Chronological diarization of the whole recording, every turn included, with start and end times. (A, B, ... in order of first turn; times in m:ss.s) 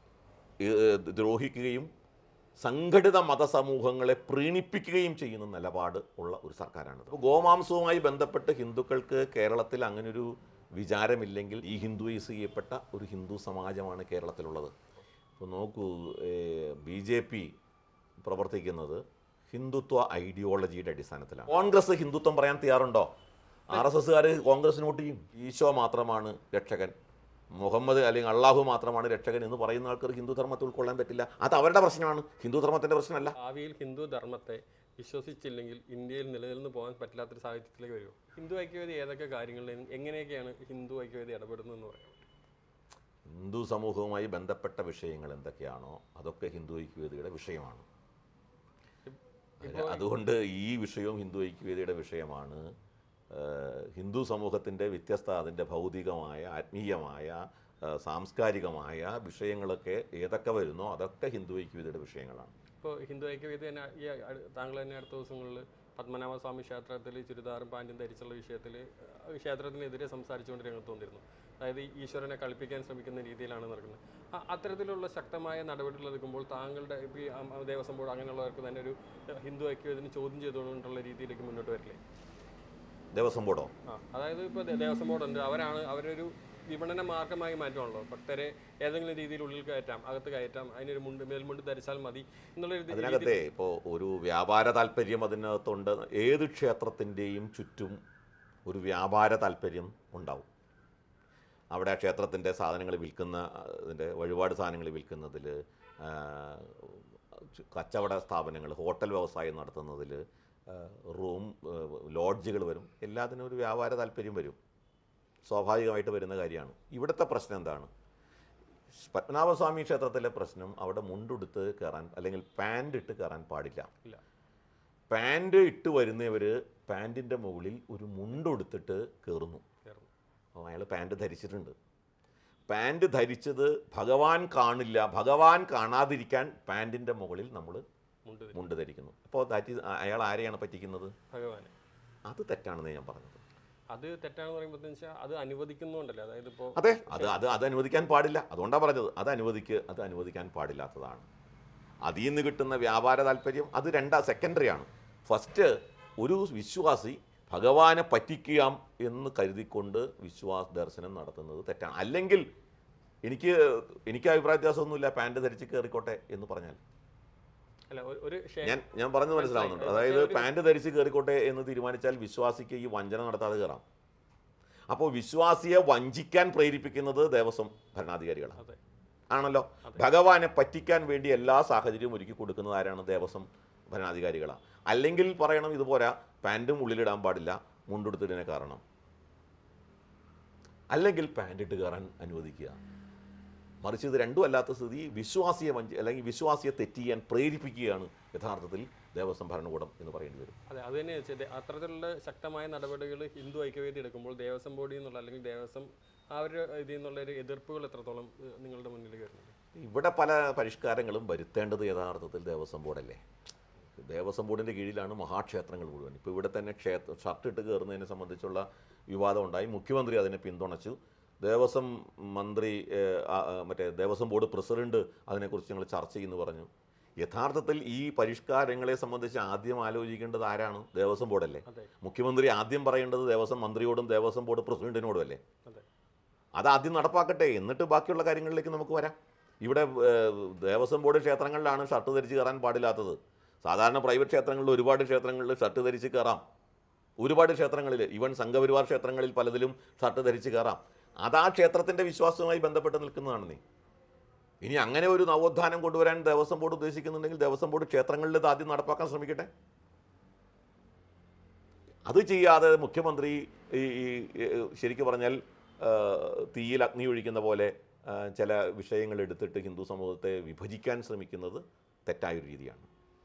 0:00.6-0:01.9 A
0:02.6-0:14.7 A
0:15.4-0:17.5 A
0:18.2-0:23.1 A
0:23.7-0:26.9 A
0:27.6-0:33.4 A
0:33.4-0:42.3 B
0:43.2-0:47.8 A
0:49.1-0:50.1 B
0:49.6-0:52.6 A
0:53.3-1:02.5 A
1:02.8-1:22.0 B
1:23.1-1:23.7 A
1:23.9-1:33.4 B
1:32.9-1:38.0 A
1:38.7-1:40.5 A
1:41.7-1:54.6 A
1:55.5-1:57.9 A
1:59.0-2:03.9 A
2:05.1-2:09.6 A
2:09.8-2:10.1 B
2:10.6-2:11.8 A
2:12.7-2:17.8 A
2:18.3-2:18.6 B
2:18.5-2:21.1 A
2:21.3-2:21.7 B
2:22.3-2:23.4 A
2:23.9-2:27.4 B
2:26.8-2:31.2 A
2:32.0-2:42.4 A
2:43.2-2:46.8 A
2:47.9-2:50.5 B
2:48.6-2:53.8 A
2:54.9-2:58.6 A
2:59.3-3:08.8 A
3:10.9-3:12.8 A
3:13.8-3:20.6 A
3:20.7-3:29.5 B
3:29.8-3:33.2 A
3:34.0-3:46.7 A
3:47.2-3:55.4 A
3:56.6-4:06.4 A
4:07.2-4:13.6 A
4:14.6-4:19.5 A
4:22.1-4:32.9 A